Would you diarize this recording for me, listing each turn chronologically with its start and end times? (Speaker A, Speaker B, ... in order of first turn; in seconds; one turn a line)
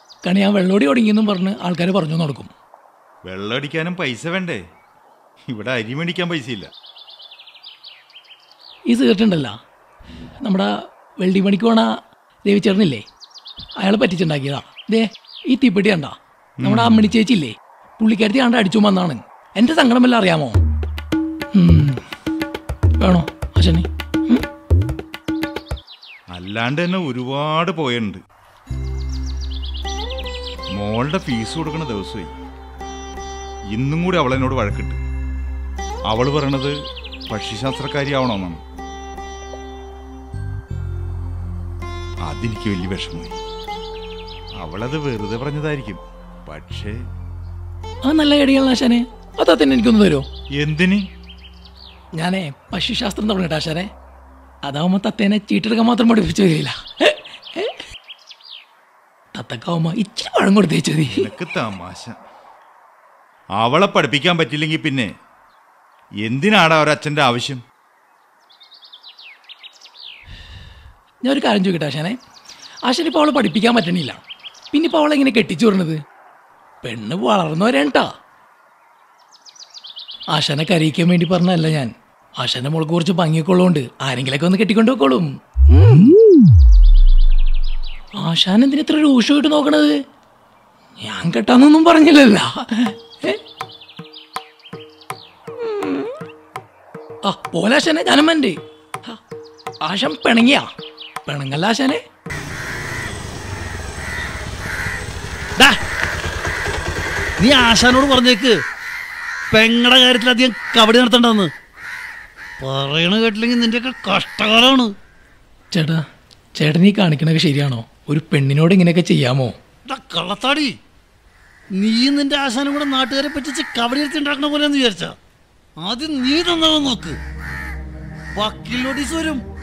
Speaker A: 0.2-2.5
Speaker B: 3.3-4.6
Speaker B: 5.5-6.7
Speaker A: 8.9-9.5
Speaker A: 10.4-10.7
Speaker A: 11.2-11.9
Speaker A: 12.5-13.0
Speaker A: 13.8-20.6
Speaker B: 16.6-17.1
Speaker A: 21.5-22.0
Speaker A: 23.0-24.4
Speaker B: 26.3-28.2
Speaker B: 30.8-32.3
Speaker B: 33.7-35.0
Speaker B: 36.1-36.7
Speaker B: 37.3-38.6
Speaker B: 42.2-43.4
Speaker B: 44.6-47.0
Speaker A: 48.0-50.2
Speaker B: 50.6-51.0
Speaker A: 52.2-53.9
Speaker A: 54.6-57.8
Speaker A: 59.3-61.3
Speaker B: 61.1-62.2
Speaker B: 63.6-65.1
Speaker B: 66.2-67.6
Speaker A: 71.2-72.2
Speaker A: 72.9-74.2
Speaker A: 74.7-76.0
Speaker A: 76.8-78.1
Speaker A: 80.3-86.1
Speaker A: 88.2-89.9
Speaker A: 91.0-93.4
Speaker A: 95.6-96.1
Speaker A: 97.2-98.6
Speaker A: 99.8-100.7
Speaker A: 101.2-102.0
Speaker C: 107.4-108.6
Speaker C: 109.5-111.5
Speaker C: 112.6-114.9
Speaker A: 115.7-116.0
Speaker A: 116.6-119.5
Speaker C: 119.8-120.7
Speaker C: 121.8-125.2
Speaker C: 125.8-127.2
Speaker C: 128.3-129.4